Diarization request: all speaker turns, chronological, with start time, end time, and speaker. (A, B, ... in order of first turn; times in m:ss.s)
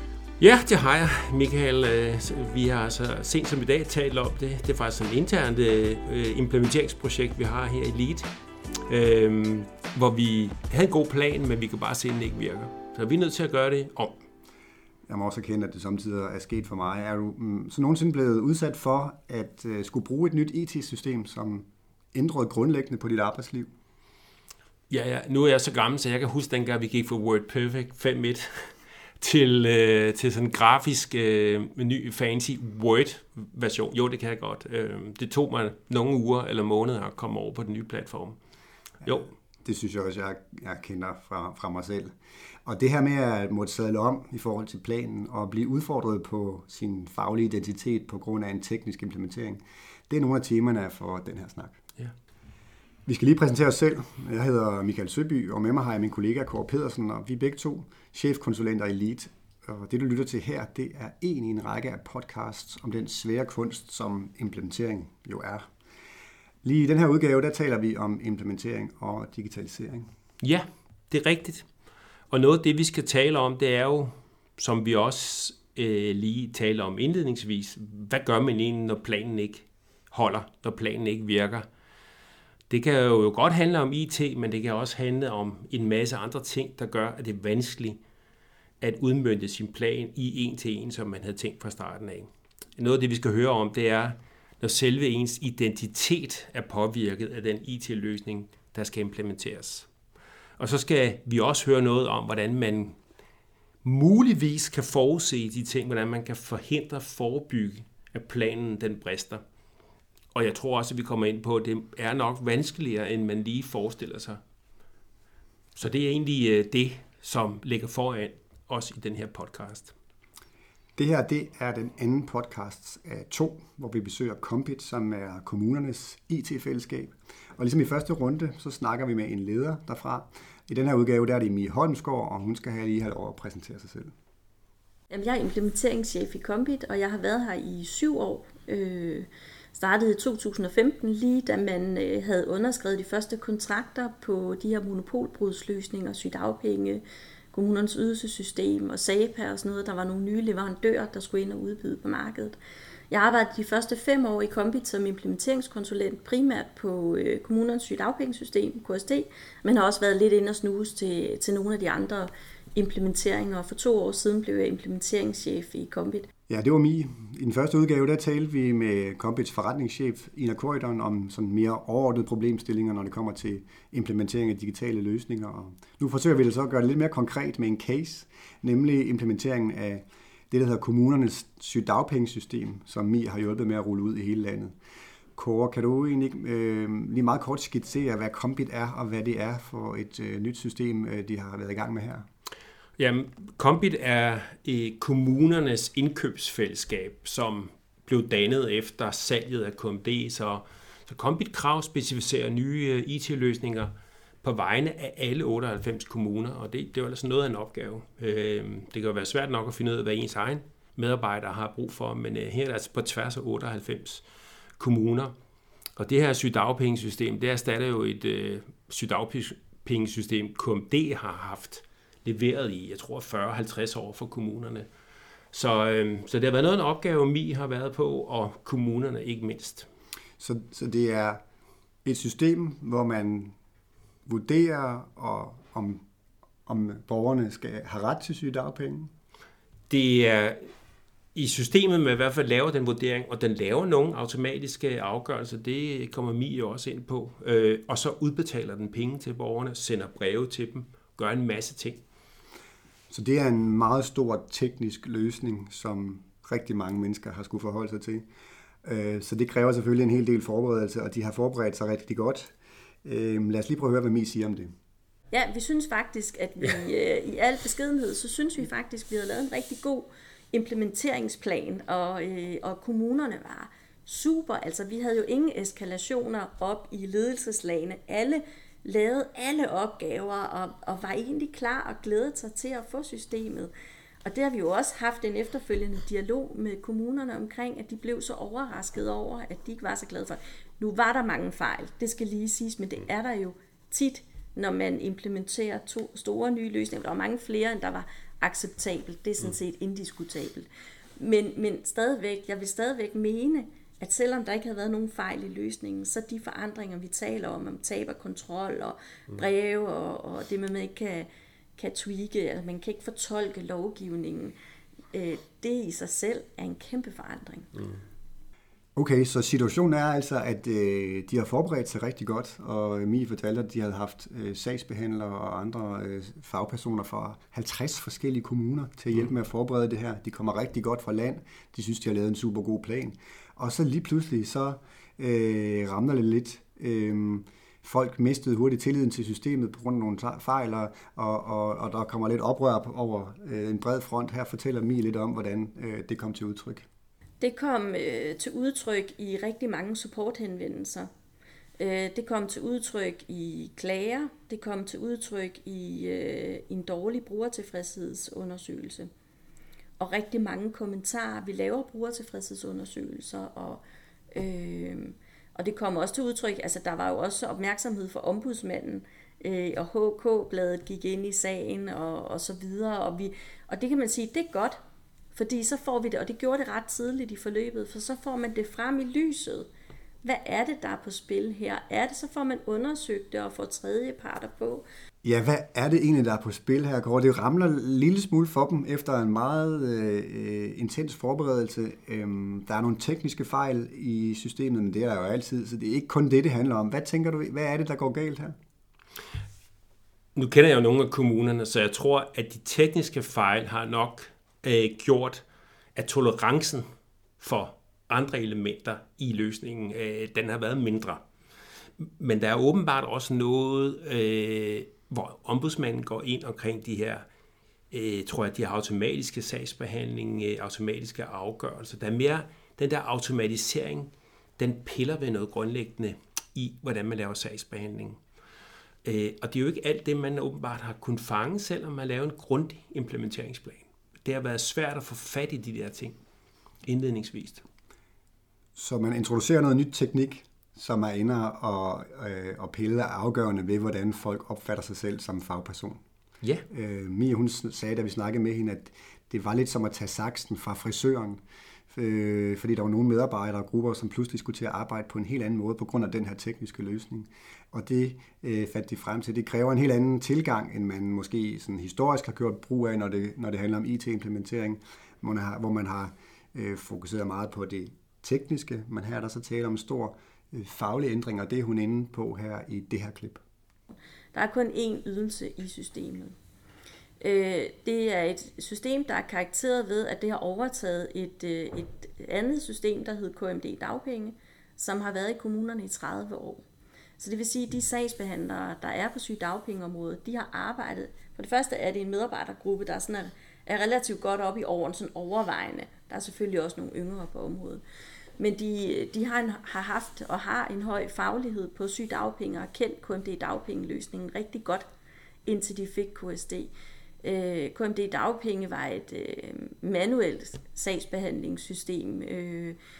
0:00.4-0:08.3 A
0:08.9-0:14.2 A
0:15.1-0:23.7 B
0:24.9-0:38.4 A
0:39.0-0:42.1 B
0:42.6-0:51.8 B
0:53.1-1:05.7 B
1:06.6-1:10.1 B
1:10.4-1:11.7 A
1:12.3-1:21.7 A
1:22.7-1:28.0 A
1:28.8-1:39.9 A
1:40.6-1:43.0 A
1:43.8-1:49.4 A
1:50.3-1:54.4 A
1:55.8-2:00.0 A
2:01.0-2:14.1 B
2:15.1-2:32.6 C
2:33.1-2:46.3 C
2:46.5-3:04.8 B
3:05.4-3:12.3 B
3:13.0-3:23.9 A
3:24.4-3:34.2 A
3:34.8-3:35.3 A
3:36.0-3:44.9 A
3:45.5-3:49.9 A
3:50.4-3:51.4 B
3:52.0-3:53.6 B
3:54.3-3:56.0 B
3:56.7-3:59.1 B
3:59.9-4:00.7 A
4:01.4-4:12.0 A
4:13.1-4:18.2 B
4:18.8-4:24.7 B
4:25.3-4:43.7 C
4:44.2-5:14.6 C
5:15.1-5:17.7 C
5:19.0-5:46.9 B
5:47.4-5:51.1 C
5:51.8-5:59.1 C
6:00.0-6:03.8 C
6:04.3-6:14.8 C
6:15.3-6:19.7 C
6:20.2-6:24.8 C
6:25.2-6:38.6 B
6:40.4-6:45.4 A
6:46.0-6:46.9 A
6:47.4-6:51.2 A
6:52.0-6:57.3 A
6:57.9-7:08.2 A
7:09.0-7:16.2 A
7:16.8-7:17.6 A
7:18.8-7:26.0 B
7:26.7-7:53.4 B
7:54.3-7:56.4 C
7:57.2-8:06.6 C
8:07.2-8:17.8 C
8:18.4-8:24.9 C
8:25.5-8:26.7 C
8:27.2-8:32.8 C